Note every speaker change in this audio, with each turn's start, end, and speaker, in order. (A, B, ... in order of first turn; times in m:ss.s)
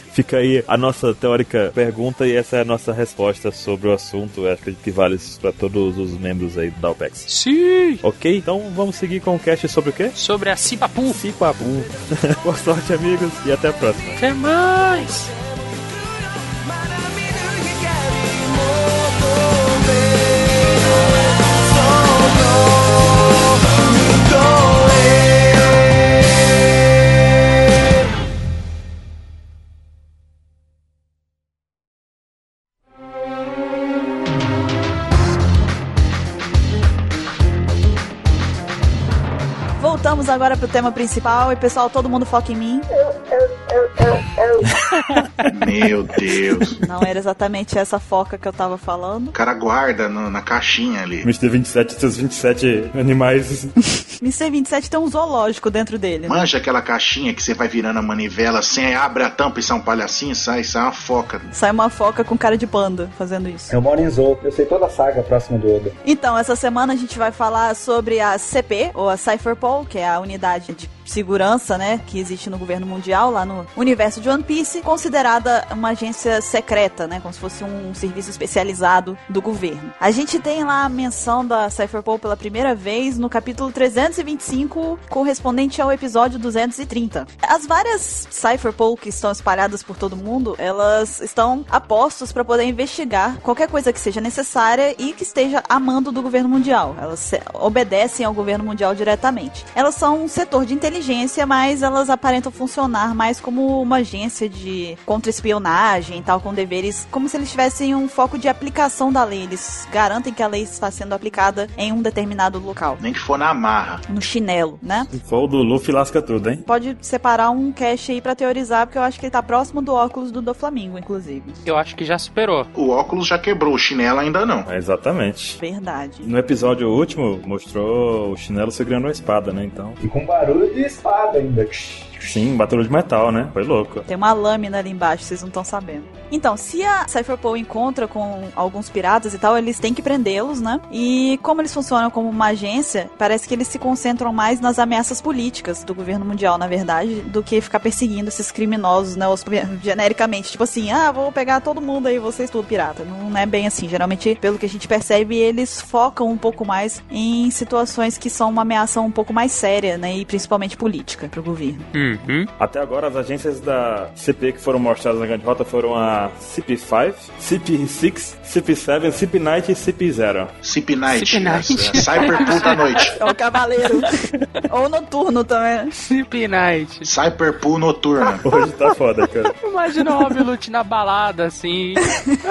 0:00.1-0:07.3 A
0:07.3-0:08.0 B
0:08.0-0:10.2 A
0:10.2-0:11.2 B
0:11.1-0:14.2 A
0:14.2-0:15.3 B
0:39.8-0:42.9 C
0:43.0-0:44.6 D
0:45.0-0:45.2 B
0:45.5-0:46.8 E
0:46.8-0:49.3 C
0:49.3-0:51.3 E
0:51.2-0:53.7 A
0:54.2-0:56.4 C
0:56.3-1:01.5 E
1:01.5-1:03.8 C
1:03.7-1:06.0 D
1:06.0-1:53.0 C
1:53.0-1:54.0 E
1:54.1-1:55.1 C
1:55.1-1:56.7 A
1:56.7-2:01.6 C
2:01.6-2:02.7 B
2:02.8-2:04.7 E
2:04.7-2:05.6 A
2:05.6-2:06.3 C
2:06.2-2:10.0 A
2:10.0-2:12.4 D
2:12.2-2:14.0 A
2:14.1-2:41.9 C
2:41.9-2:42.5 B
2:42.6-2:50.6 A
2:50.6-2:53.2 E
2:51.1-2:53.2 B
2:53.2-2:55.9 C
2:56.0-2:57.1 B
2:57.0-2:58.4 E
2:58.4-2:59.6 A
2:59.6-3:02.1 B